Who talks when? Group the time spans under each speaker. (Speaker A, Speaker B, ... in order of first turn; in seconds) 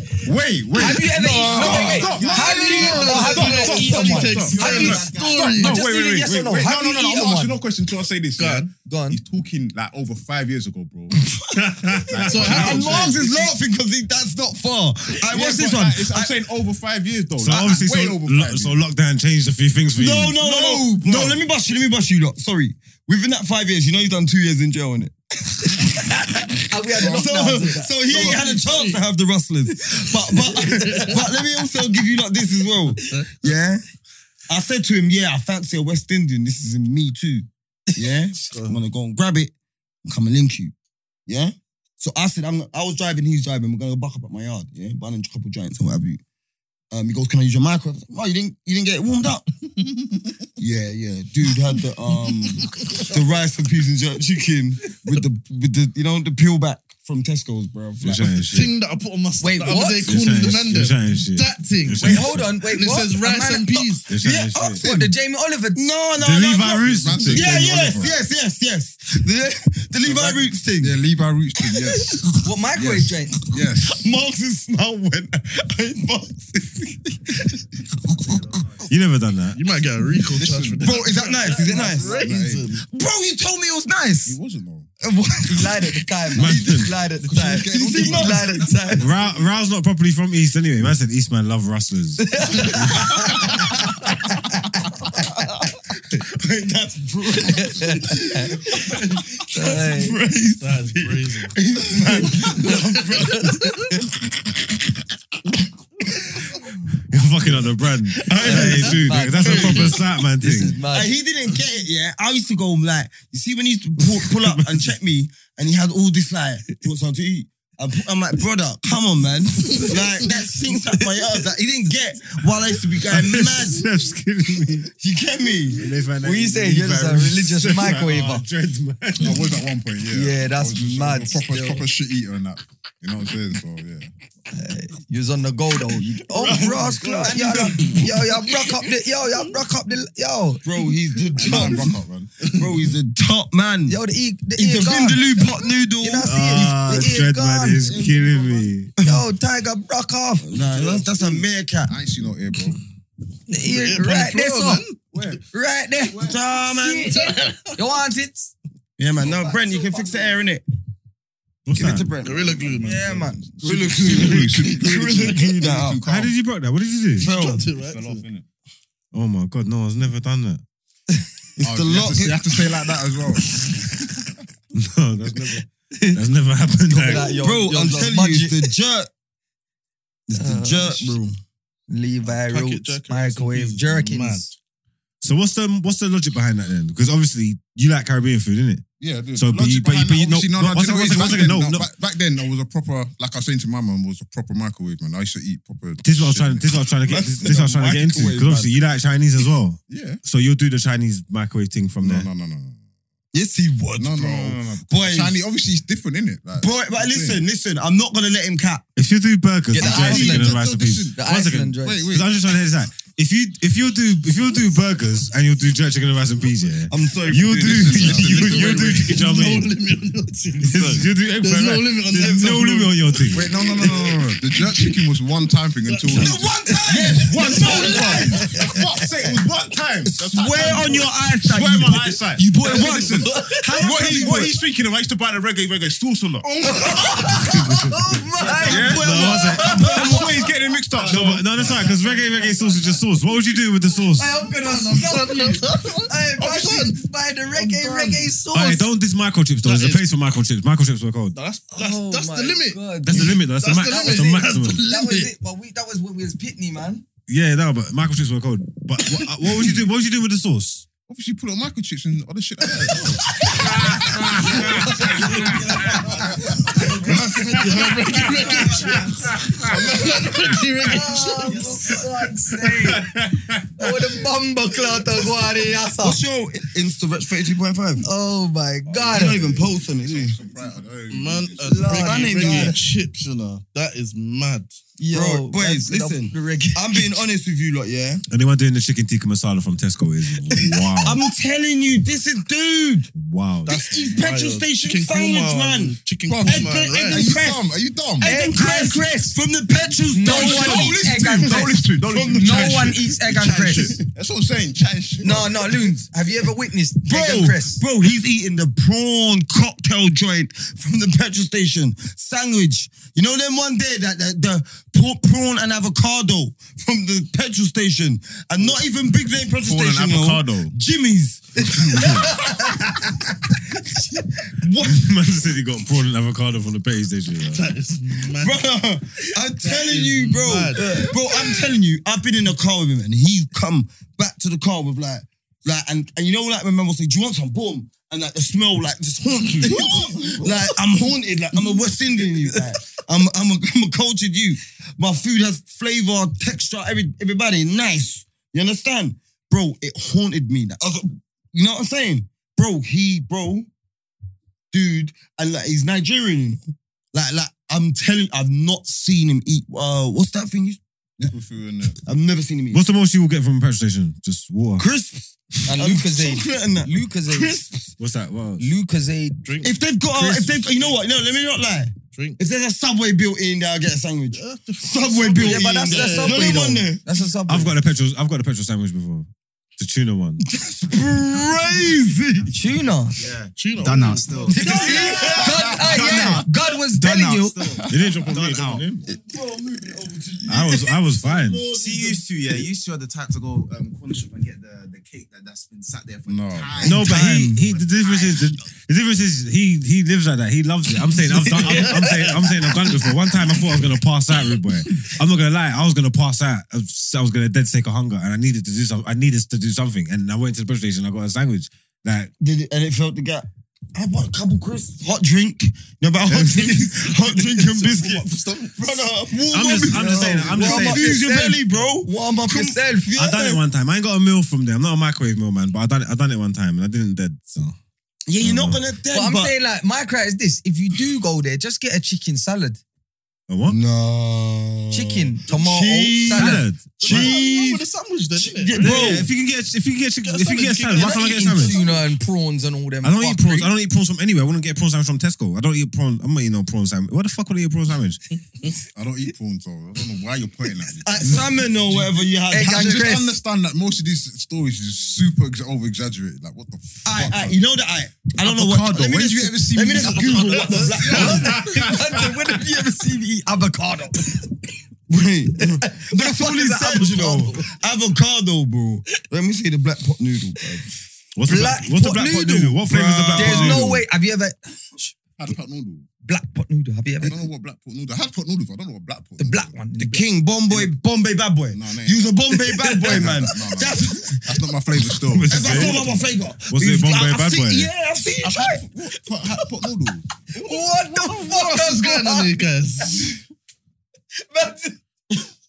Speaker A: 0.2-11.2, 11.8-13.6, 15.2-18.8, 20.4-21.4, 27.0-27.3, 66.8-68.2, 70.0-74.0, 80.3-82.7, 84.2-84.9, 87.2-88.7, 127.6-127.9, 129.2-134.1, 136.3-138.1, 141.4-142.3, 147.8-148.7, 150.5-152.8, 155.1-155.4, 162.4-166.4, 167.7-168.5, 171.6-173.8, 189.0-196.8, 199.9-200.2, 202.0-202.8, 204.0-207.4, 209.8-212.6, 217.6-219.0, 223.3-236.7, 238.6-242.0, 246.4-246.9, 261.1-265.1, 266.2-266.9, 268.6-269.0, 269.6-270.6, 278.9-282.2, 296.3-298.3, 300.2-305.7, 319.6-320.7, 361.2-362.0, 384.9-385.8, 387.9-388.5, 391.1-392.2, 396.2-397.0, 419.9-420.6, 448.9-457.6, 458.4-461.9, 475.4-476.1, 477.2-479.8, 481.7-482.4, 483.0-486.3, 488.4-490.2
Speaker B: 0.8-7.6, 8.8-9.2, 26.4-28.4, 30.0-31.1, 59.4-60.2, 62.0-65.8, 72.4-73.4, 85.5-89.1, 92.2-95.3, 97.5-98.6, 99.5-100.2, 102.6-104.0, 108.4-111.1, 126.2-128.5, 130.1-131.9, 134.5-140.6, 143.9-145.2, 146.0-147.9, 149.0-150.5, 153.5-154.8, 155.5-158.5, 159.2-160.3, 162.8-163.4, 175.9-176.2, 176.9-178.7, 180.3-181.2, 181.9-184.5, 209.7-212.1, 226.9-229.3, 232.7-234.3, 236.6-240.5, 244.1-248.9, 251.7-257.1, 263.3-263.9, 264.4-267.2, 270.8-273.1, 273.8-276.2, 278.0-279.4, 281.6-282.7, 285.0-287.2, 298.2-299.4, 300.1-303.9, 305.2-307.8, 321.9-322.9, 365.7-367.5, 368.6-369.4, 370.1-370.6, 375.4-377.8, 382.5-383.2, 384.5-387.8, 401.6-402.2, 420.5-423.1, 429.1-432.8, 434.9-436.7, 440.9-443.7, 452.5-453.3, 461.1-464.5, 465.6-467.7, 471.4-475.1, 476.2-477.4, 479.4-480.2, 482.5-483.3, 490.5-493.3, 494.4-495.5
Speaker C: 1.3-5.6, 238.4-238.9, 241.0-243.0, 268.5-269.0, 271.3-272.1, 383.1-388.9, 391.6-398.7
Speaker D: 2.3-5.8, 8.4-8.7, 12.2-13.2, 28.1-29.0, 30.6-31.2, 33.1-33.5, 38.5-38.8, 52.6-53.0, 58.3-64.1, 79.5-82.9, 100.6-101.5, 153.6-155.0, 157.1-157.8, 162.2-163.1, 167.2-168.2, 182.2-184.5, 218.2-225.0, 225.8-226.5, 227.6-228.0, 236.4-237.3, 244.5-246.9, 247.5-248.3, 249.6-250.1, 251.3-255.3, 267.4-269.1, 269.6-271.9, 281.1-284.8, 294.0-297.3, 327.5-328.6, 329.6-331.1, 339.7-340.0, 369.4-369.8, 372.1-372.4, 374.3-376.6, 383.6-385.1, 401.4-402.5, 417.0-419.1, 437.0-439.2, 440.2-442.1, 460.3-461.4, 491.1-493.4
Speaker E: 11.5-16.4, 20.0-33.8, 34.5-39.5, 40.0-40.7, 41.3-46.2, 46.9-49.4, 50.6-58.3, 65.8-71.0, 71.9-72.2, 73.8-78.6, 80.8-82.2, 82.9-84.4, 85.0-86.9, 87.7-89.0, 95.2-103.6, 108.2-109.9, 110.9-123.9, 124.9-125.9, 136.4-138.0, 140.6-144.0, 144.6-146.9, 150.4-151.9, 156.2-157.2, 159.0-160.6, 161.7-162.7, 163.6-166.0, 167.2-167.7, 171.6-172.6, 177.0-179.1, 180.3-181.4, 197.0-198.7, 203.3-205.4, 206.6-208.9, 216.9-218.5, 222.1-222.9, 226.1-228.6, 230.1-234.5, 238.6-240.4, 266.7-268.6, 276.0-278.1, 279.1-280.4, 281.9-282.7, 285.1-288.2, 290.6-293.1, 293.6-297.7, 298.2-302.7, 305.2-306.0, 307.0-322.8, 324.4-325.1, 328.3-353.7, 354.7-360.8, 362.0-362.8, 364.8-367.9, 369.6-377.0, 380.4-382.5, 384.5-386.3, 389.1-391.0, 396.8-397.6, 412.4-423.6, 428.3-429.5, 433.7-437.8, 438.4-439.3, 451.0-453.1, 457.1-461.7, 465.1-470.9, 472.8-473.9, 480.0-484.6, 485.5-488.8
Speaker F: 17.4-20.4, 58.0-58.7, 60.0-62.5, 64.1-64.8, 66.2-67.8, 78.9-79.6, 86.3-86.9, 89.0-93.3, 107.1-110.8, 123.1-124.9, 125.8-129.5, 146.2-148.9, 161.7-162.1, 166.0-167.3, 169.1-170.6, 174.7-177.4, 185.2-188.8, 189.3-191.9, 196.0-202.3, 209.0-219.7, 220.6-223.5, 237.3-238.1, 238.9-240.1, 241.1-244.4, 248.5-251.4, 253.0-254.8, 257.3-260.9, 263.5-264.9, 273.0-273.9, 288.3-291.2, 293.1-294.0, 324.8-327.7, 362.7-364.9, 368.0-368.7, 377.5-380.4, 387.9-389.0, 390.5-391.7, 396.9-412.3, 416.3-417.0, 419.5-421.1, 423.1-427.8, 428.4-428.8, 433.5-433.8, 436.3-437.4, 438.8-441.8, 443.0-448.2, 471.4-474.1, 485.3-486.1, 486.7-487.9